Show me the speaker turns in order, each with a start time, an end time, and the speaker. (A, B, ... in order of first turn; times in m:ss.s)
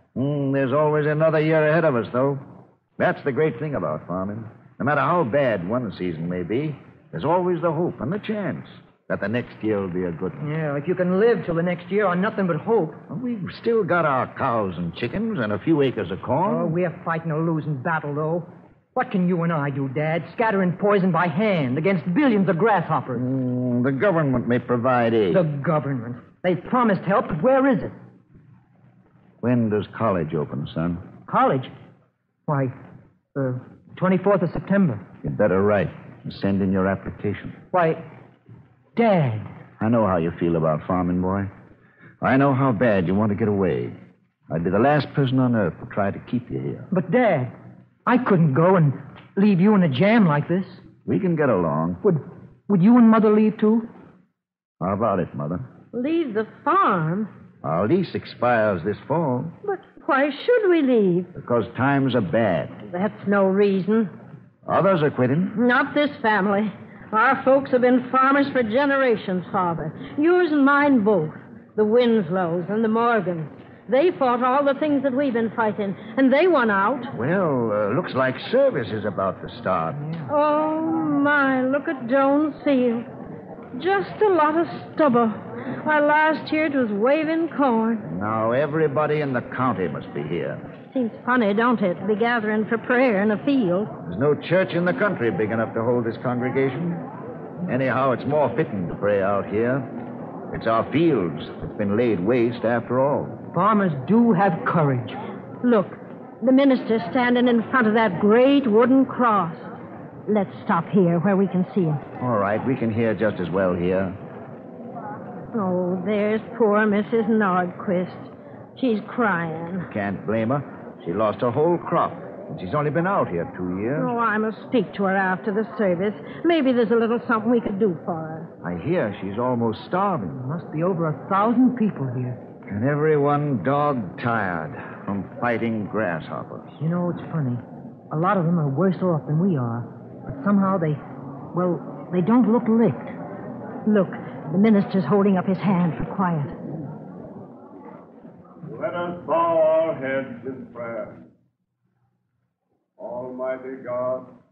0:00.1-0:02.4 A
0:03.0-0:10.5 A
0:10.4-0:13.0 B
0:13.1-0:16.8 A
0:16.5-0:23.3 B
0:23.1-0:25.4 A
0:25.3-0:28.0 B
0:29.4-0:31.0 A
0:31.3-0:31.7 B
0:32.5-0:32.7 B
0:33.4-0:35.0 B
0:35.2-0:37.6 A
0:37.7-0:38.0 B
0:39.0-0:39.5 B
0:39.8-0:41.5 A
0:42.2-0:44.0 A
0:44.5-0:46.9 A
0:46.9-0:47.5 B
0:48.1-0:50.8 B
0:51.1-0:52.0 A
0:52.0-0:53.9 B
0:54.8-0:55.6 A
0:55.9-0:57.3 C
0:57.6-0:59.5 A
0:59.6-1:01.3 C
1:01.4-1:02.8 A
1:02.8-1:04.1 C
1:04.6-1:05.6 A
1:05.6-1:17.1 C
1:17.1-1:20.0 A
1:20.3-1:23.1 C
1:23.8-1:28.0 C
1:28.0-1:30.7 A
1:30.9-1:33.9 C
1:34.0-1:37.0 A
1:37.6-1:39.9 A
1:40.5-1:43.4 A
1:43.5-1:45.2 B
1:45.6-1:49.7 C
1:50.3-1:52.0 C
1:52.2-1:54.2 A
1:55.5-1:59.9 C
1:59.8-2:04.1 A
2:04.0-2:08.5 C
2:08.6-2:10.4 A
2:10.3-2:12.4 B
2:12.7-2:16.8 A
2:16.8-2:21.0 B
2:21.5-2:23.2 B
2:23.9-2:26.6 C
2:28.6-2:31.2 D
2:33.0-2:34.4 D